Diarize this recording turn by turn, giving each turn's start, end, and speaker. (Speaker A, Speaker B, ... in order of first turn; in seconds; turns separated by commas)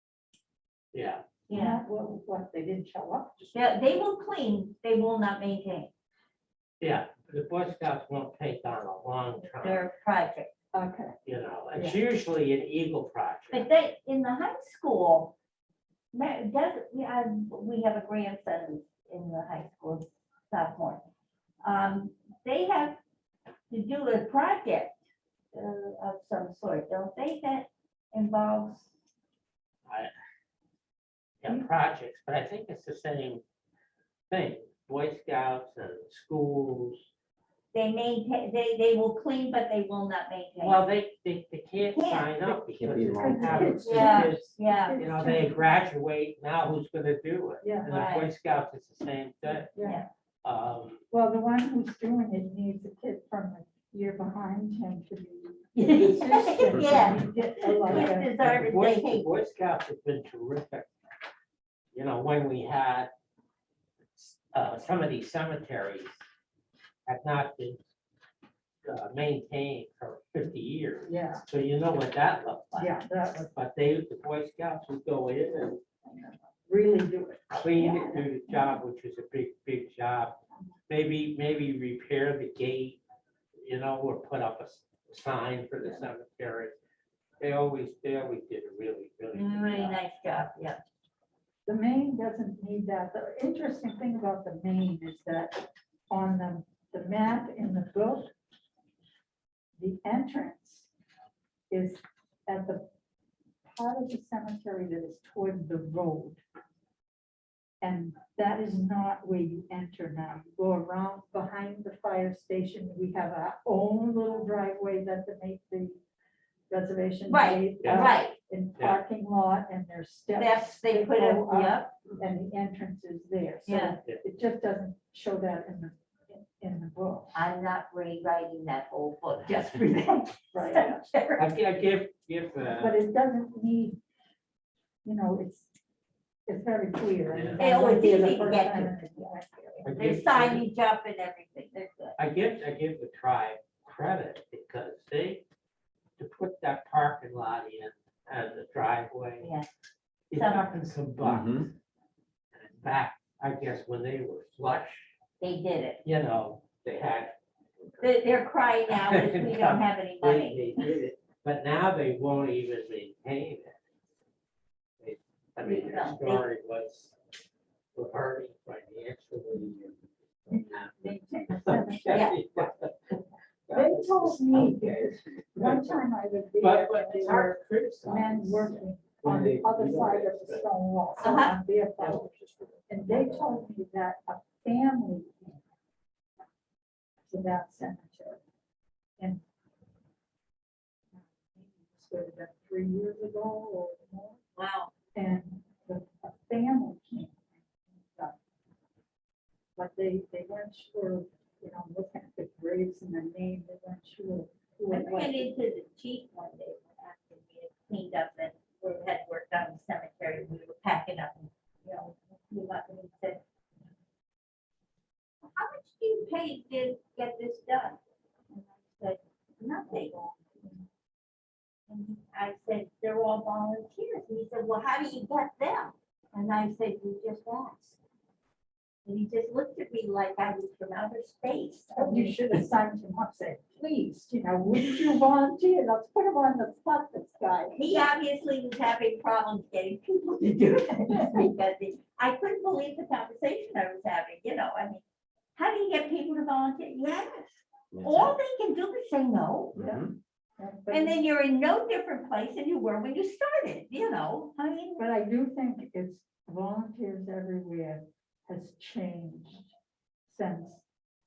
Speaker A: 0.9-1.2, Speaker B: 1.5-1.8, Speaker C: 1.5-3.7, Speaker B: 3.5-5.9, Speaker A: 6.8-9.9, Speaker B: 9.6-10.5, Speaker C: 10.7-11.1, Speaker A: 11.2-13.7, Speaker C: 11.7-12.0, Speaker B: 13.5-15.3, Speaker B: 16.1-21.0, Speaker B: 21.6-23.0, Speaker B: 23.7-24.9, Speaker B: 25.5-28.9, Speaker A: 31.4-33.4, Speaker A: 34.3-37.0, Speaker B: 37.7-40.8, Speaker A: 40.6-49.7, Speaker B: 41.9-42.3, Speaker D: 42.4-44.0, Speaker C: 43.1-45.5, Speaker B: 43.8-45.0, Speaker C: 47.6-47.9, Speaker B: 47.9-48.3, Speaker C: 49.7-50.0, Speaker B: 49.8-50.1, Speaker A: 50.4-51.0, Speaker C: 51.1-58.4, Speaker B: 55.7-59.3, Speaker D: 56.7-57.0, Speaker A: 57.9-60.9, Speaker A: 61.9-63.1, Speaker A: 64.1-66.1, Speaker A: 67.1-67.8, Speaker A: 68.8-72.9, Speaker C: 71.1-71.4, Speaker C: 72.7-73.5, Speaker A: 73.5-75.8, Speaker B: 76.1-76.3, Speaker C: 76.7-78.7, Speaker A: 77.5-83.0, Speaker A: 83.6-86.8, Speaker A: 87.4-90.0, Speaker B: 89.3-90.8, Speaker C: 91.7-98.3, Speaker C: 99.8-100.9, Speaker C: 101.7-102.8, Speaker C: 103.6-106.4, Speaker C: 107.8-116.0, Speaker C: 116.7-127.3, Speaker B: 117.3-118.3, Speaker A: 117.8-118.2, Speaker B: 120.3-121.9, Speaker B: 123.6-124.0, Speaker B: 127.3-131.5, Speaker C: 130.5-131.1, Speaker A: 131.4-133.0, Speaker C: 132.7-134.0, Speaker C: 135.0-135.7, Speaker C: 136.5-139.9, Speaker A: 137.3-137.6, Speaker B: 137.6-142.2, Speaker A: 139.8-140.7, Speaker A: 142.2-145.4, Speaker A: 146.2-149.5, Speaker B: 149.4-149.7, Speaker A: 150.3-151.7, Speaker B: 150.3-150.8, Speaker D: 151.2-151.7, Speaker A: 152.5-155.1, Speaker B: 155.4-156.0, Speaker A: 156.0-157.3, Speaker B: 158.0-160.8, Speaker A: 158.9-163.8, Speaker A: 165.0-167.2, Speaker B: 165.6-166.4, Speaker A: 167.9-176.0, Speaker C: 170.5-172.3, Speaker B: 172.1-172.4, Speaker C: 173.7-182.3, Speaker A: 176.6-180.7, Speaker B: 181.2-181.6, Speaker A: 182.0-183.4, Speaker C: 182.9-185.6, Speaker C: 187.2-188.4, Speaker C: 191.1-194.4, Speaker B: 194.6-194.9, Speaker C: 195.1-198.3, Speaker C: 199.8-205.5, Speaker B: 204.9-213.4, Speaker B: 215.6-218.0, Speaker B: 218.5-220.3, Speaker C: 219.9-220.7, Speaker B: 221.9-228.0, Speaker B: 229.0-232.4, Speaker C: 231.9-237.8, Speaker B: 237.7-245.0, Speaker B: 245.6-249.7, Speaker D: 247.9-248.3, Speaker D: 249.7-250.2, Speaker C: 249.8-250.0, Speaker C: 250.6-251.2, Speaker B: 250.9-255.0, Speaker C: 254.6-259.7, Speaker C: 260.3-260.8